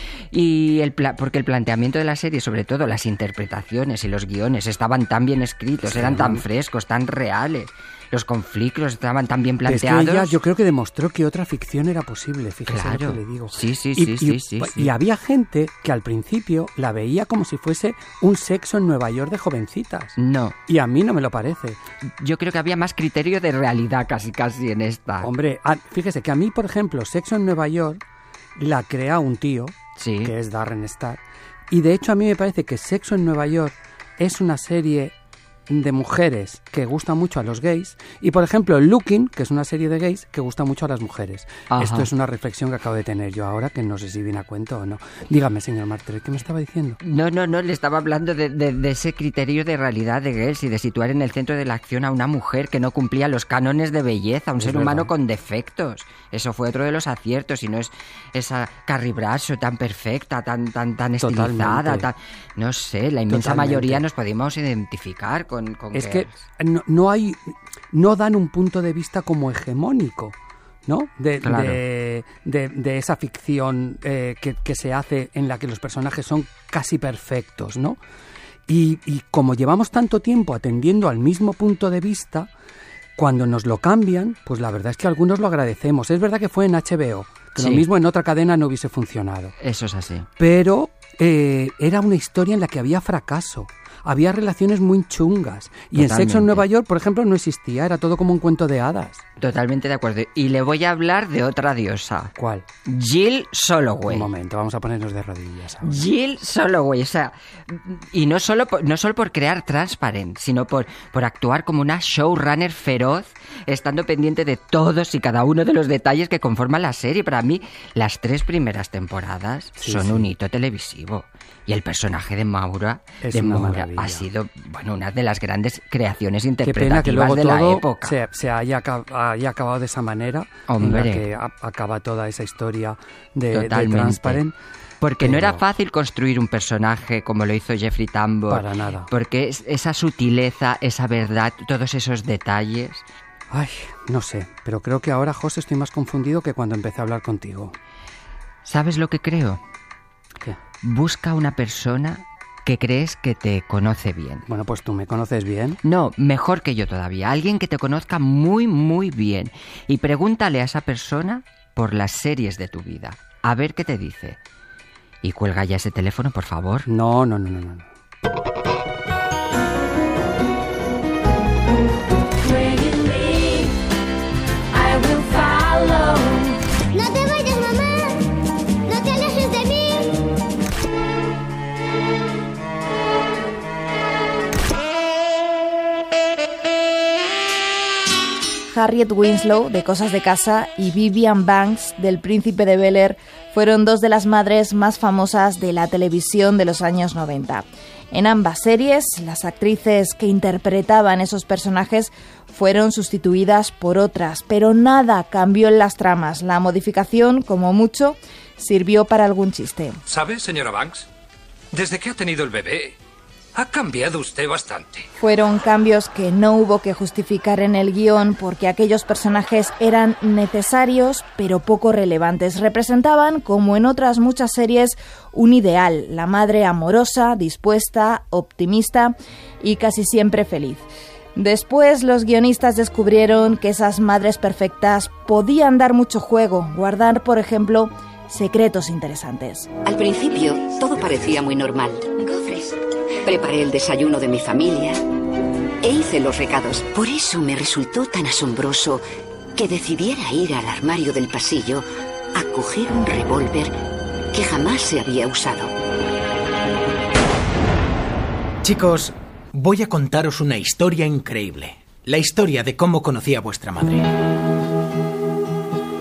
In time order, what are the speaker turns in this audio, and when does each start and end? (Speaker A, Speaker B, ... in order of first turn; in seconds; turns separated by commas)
Speaker A: 0.3-10.4, Speaker B: 5.8-6.4, Speaker B: 9.6-21.8, Speaker A: 12.7-14.9, Speaker A: 20.2-20.6, Speaker A: 22.2-25.3, Speaker B: 25.2-28.0, Speaker B: 28.6-35.1, Speaker A: 30.0-30.3, Speaker B: 35.7-47.0, Speaker A: 41.7-42.1, Speaker A: 47.0-66.4, Speaker B: 54.6-55.1, Speaker B: 61.2-62.1, Speaker B: 63.3-64.0, Speaker B: 65.9-78.0, Speaker A: 71.4-71.8, Speaker B: 78.7-82.5, Speaker B: 83.2-89.5, Speaker A: 87.6-87.8, Speaker A: 89.6-90.3, Speaker B: 90.4-99.2, Speaker A: 95.9-96.7, Speaker A: 99.4-102.3, Speaker B: 102.3-102.7, Speaker A: 102.8-104.3, Speaker B: 104.1-106.0, Speaker A: 105.8-128.1, Speaker B: 119.8-120.3, Speaker B: 123.2-124.3, Speaker B: 126.6-134.6, Speaker A: 130.7-131.2, Speaker A: 133.5-134.4, Speaker A: 135.0-143.0, Speaker B: 135.2-135.6, Speaker B: 138.5-139.1, Speaker B: 143.5-147.8, Speaker A: 148.6-149.6, Speaker A: 150.8-154.4, Speaker B: 154.4-155.8, Speaker A: 155.8-164.4, Speaker A: 165.2-166.9, Speaker B: 166.8-167.8, Speaker C: 176.9-178.2, Speaker C: 178.9-180.2, Speaker D: 188.7-210.0, Speaker E: 210.1-211.1, Speaker E: 211.7-212.9, Speaker E: 213.5-215.1, Speaker D: 215.2-239.7, Speaker F: 239.8-245.0, Speaker F: 245.8-249.0, Speaker F: 249.6-253.7, Speaker F: 254.3-255.7, Speaker G: 258.6-264.1